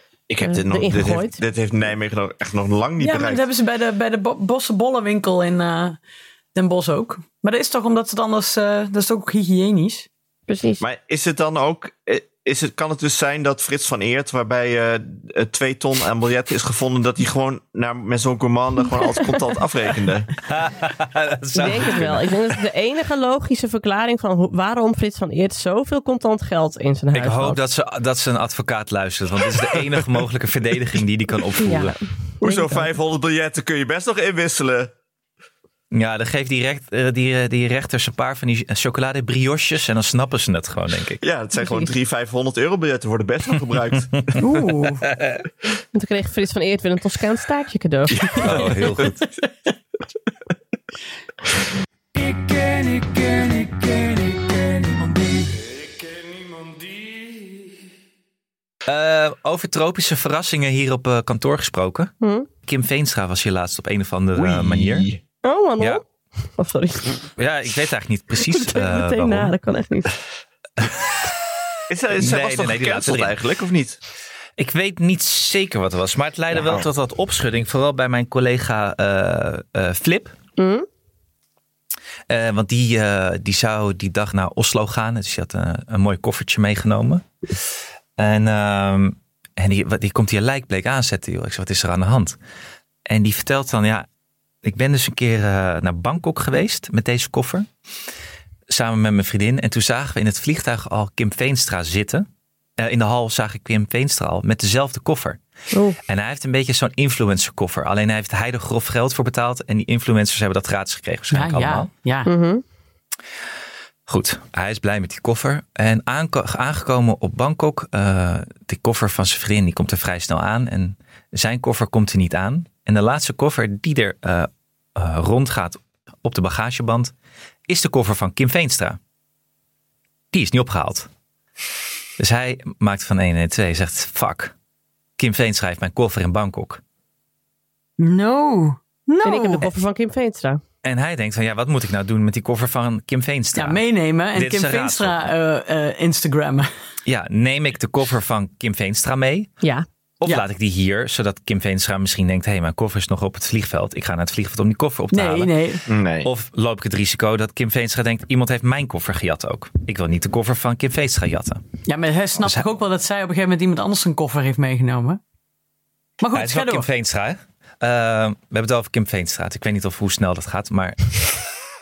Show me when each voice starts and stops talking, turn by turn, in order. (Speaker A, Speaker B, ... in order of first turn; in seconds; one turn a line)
Speaker A: 0.3-3.4
Speaker B: 0.4-1.4
Speaker C: 3.0-6.0
Speaker C: 6.5-10.1
Speaker B: 10.5-10.8
Speaker A: 10.8-20.4
Speaker D: 20.5-22.6
Speaker B: 21.5-27.6
Speaker D: 27.1-32.0
Speaker B: 31.6-32.9
Speaker A: 32.4-34.9
Speaker D: 35.9-41.2
Speaker A: 41.2-44.2
Speaker B: 41.6-41.9
Speaker D: 44.1-44.4
Speaker C: 44.4-45.0
Speaker D: 45.1-45.4
Speaker B: 45.9-48.6
Speaker A: 48.1-49.0
Speaker D: 48.4-49.2
Speaker E: 52.1-57.7
Speaker D: 58.9-62.1
Speaker B: 62.2-62.5
Speaker D: 62.7-65.1
Speaker A: 64.3-65.2
Speaker B: 65.4-66.0
Speaker B: 66.5-67.2
Speaker D: 67.4-69.5
Speaker B: 68.5-70.2
Speaker D: 70.8-71.3
Speaker A: 71.9-74.0
Speaker D: 72.2-73.4
Speaker D: 74.6-80.3
Speaker A: 76.5-76.9
Speaker B: 80.6-80.9
Speaker D: 82.3-87.2
Speaker D: 88.2-92.4
Speaker D: 93.1-94.1
Speaker D: 94.6-97.7
Speaker D: 98.7-102.3
Speaker D: 102.8-105.4
Speaker B: 105.7-106.0
Speaker D: 106.1-111.9
Speaker C: 111.3-112.3
Speaker B: 112.3-112.6
Speaker D: 114.1-127.1
Speaker D: 127.7-129.0
Speaker D: 130.3-131.1
Speaker D: 132.2-134.5
Speaker D: 135.2-136.8
Speaker C: 138.0-139.7
Speaker B: 139.2-140.6
Speaker D: 140.8-143.8
Speaker C: 143.6-146.7
Speaker D: 144.3-145.3
Speaker D: 147.1-149.5
Speaker D: 150.2-155.5
Speaker C: 155.1-155.9
Speaker A: 155.9-156.3
Speaker D: 156.2-161.6
Speaker C: 161.9-165.2
Speaker C: 166.2-166.9
Speaker D: 166.3-171.4